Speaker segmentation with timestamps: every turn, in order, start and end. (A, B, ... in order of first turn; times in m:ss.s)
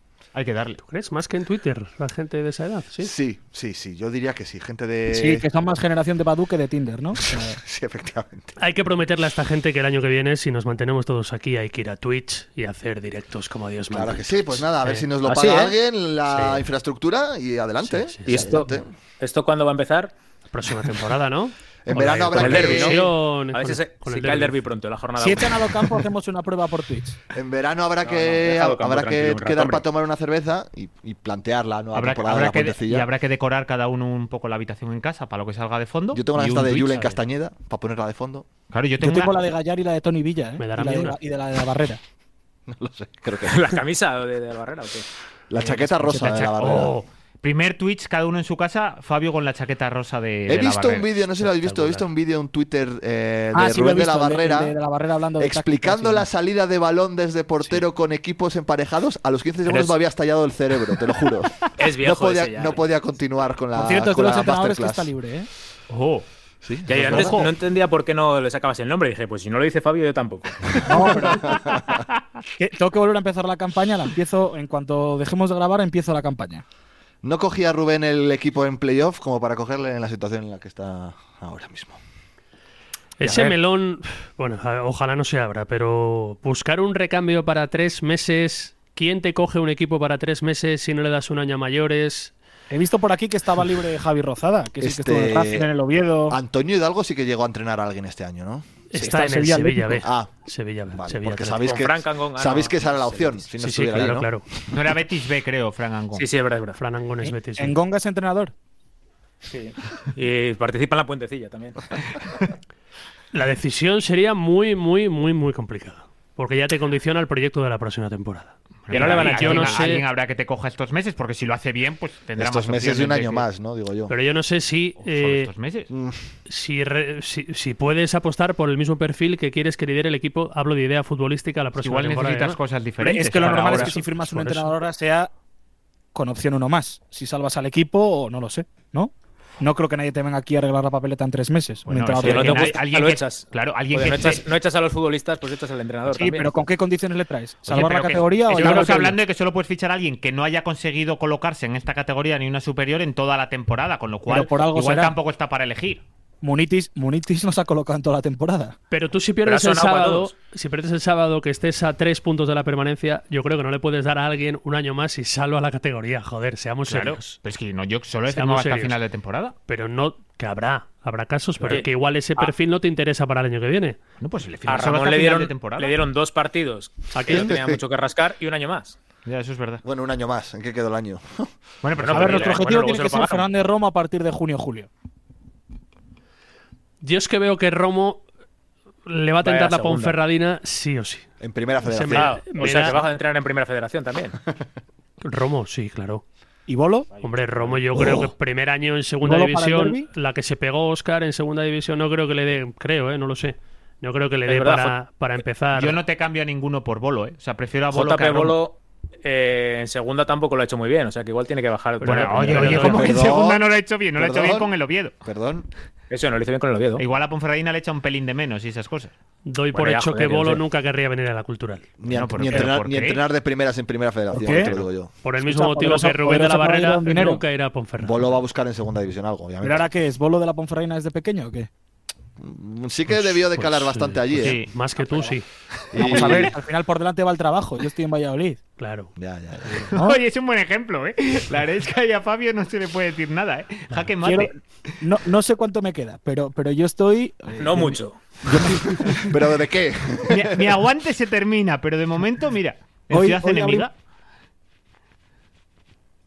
0:00.3-0:00.8 A
0:00.8-0:03.1 B
0:03.0-0:05.4 C
0:05.1-0:07.6 D
0:07.2-0:08.6 C
0:08.6-0:15.1 B
0:13.9-0:18.9 C
0:15.2-0:15.7 E
0:16.3-0:16.6 B
0:17.8-0:18.6 B
0:18.2-0:20.1 E
0:20.5-0:24.6 B
0:21.8-0:23.1 C
0:22.3-0:25.9 E
0:25.2-0:27.2 D
0:27.3-0:33.1 C
0:28.0-0:29.8 E
0:31.9-0:37.2 A
0:36.1-0:38.5 C
0:38.7-0:39.4 A
0:39.0-0:42.0 D
0:40.6-0:41.2 B
0:42.7-0:43.6 C
0:43.4-0:45.0 E
0:45.5-0:46.9 C
0:45.6-0:46.4 D
0:46.2-0:51.1 A
0:50.5-0:54.7 C
0:51.4-0:52.0 B
0:53.5-0:56.3 D
0:55.4-1:05.1 C
1:01.8-1:02.8 E
1:03.7-1:05.5 D
1:05.9-1:06.2 A
1:06.6-1:07.4 C
1:06.9-1:10.9 E
1:06.9-1:07.5 A
1:10.8-1:11.6 D
1:11.2-1:12.0 C
1:12.6-1:16.6 D
1:17.2-1:22.0 C
1:23.2-1:32.3 B
1:32.7-1:36.4 D
1:34.8-1:35.7 C
1:36.3-1:38.6 C
1:38.9-1:41.7 B
1:39.0-1:40.0 D
1:40.0-1:40.3 C
1:40.9-1:44.8 C
1:41.6-1:43.4 E
1:43.6-1:44.4 B
1:44.7-1:46.3 A
1:46.1-1:46.8 E
1:46.8-1:47.8 B
1:47.2-1:48.5 D
1:49.4-1:51.8 E
1:53.3-2:00.0 B
1:58.9-2:03.4 A
1:58.9-1:59.9 E
2:02.4-2:04.1 C
2:04.1-2:05.5 B
2:05.0-2:05.9 A
2:05.9-2:06.3 C
2:06.5-2:12.6 B
2:11.8-2:14.0 A
2:13.0-2:15.3 D
2:13.4-2:14.7 B
2:16.1-2:22.8 D
2:21.9-2:24.4 A
2:22.2-2:26.6 E
2:26.1-2:29.2 D
2:27.7-2:36.0 A
2:28.5-2:29.0 E
2:34.3-2:35.1 D
2:36.4-2:38.8 D
2:38.9-2:47.4 B
2:39.4-2:40.3 E
2:46.8-2:49.5 A
2:48.3-2:49.0 B
2:49.7-2:54.0 B
2:51.6-2:52.5 E
2:54.2-2:55.9 A
2:54.6-2:59.0 E
2:57.1-2:57.5 B
2:57.3-2:57.8 C
2:59.2-2:59.8 A
2:59.8-3:01.5 C
3:01.8-3:03.0 A
3:02.0-3:03.5 E
3:02.1-3:04.9 D
3:07.0-3:08.2 B
3:09.0-3:11.2 B
3:09.4-3:10.2 E
3:11.4-3:12.4 C
3:11.8-3:13.0 B
3:12.1-3:14.4 E
3:15.2-3:16.2 B
3:16.7-3:17.1 D
3:17.1-3:17.8 E
3:17.2-3:26.0 B
3:19.2-3:20.1 D
3:24.4-3:25.0 E
3:25.7-3:28.6 A
3:27.9-3:33.2 E
3:32.0-3:33.1 B
3:32.0-3:35.1 A
3:32.7-3:34.7 C
3:35.2-3:35.7 C
3:36.1-3:37.0 E
3:37.0-3:39.1 A
3:39.4-3:41.8 B
3:39.7-3:40.6 E
3:42.0-3:45.1 C
3:42.1-3:43.2 A
3:44.3-3:44.7 D
3:45.2-3:48.3 B
3:45.4-3:47.4 D
3:48.0-3:49.8 C
3:49.6-3:51.7 D
3:52.4-3:54.6 C
3:53.1-3:55.4 B
3:54.4-3:54.7 A
3:55.9-3:56.5 C
3:56.0-3:58.6 D
3:56.0-3:56.5 A
3:58.8-3:59.1 B
3:59.2-3:59.9 C
3:59.6-3:59.9 B
3:59.9-4:04.5 A
4:04.2-4:08.0 D
4:07.6-4:08.2 E
4:08.4-4:10.8 C
4:10.3-4:13.9 A
4:13.1-4:13.9 D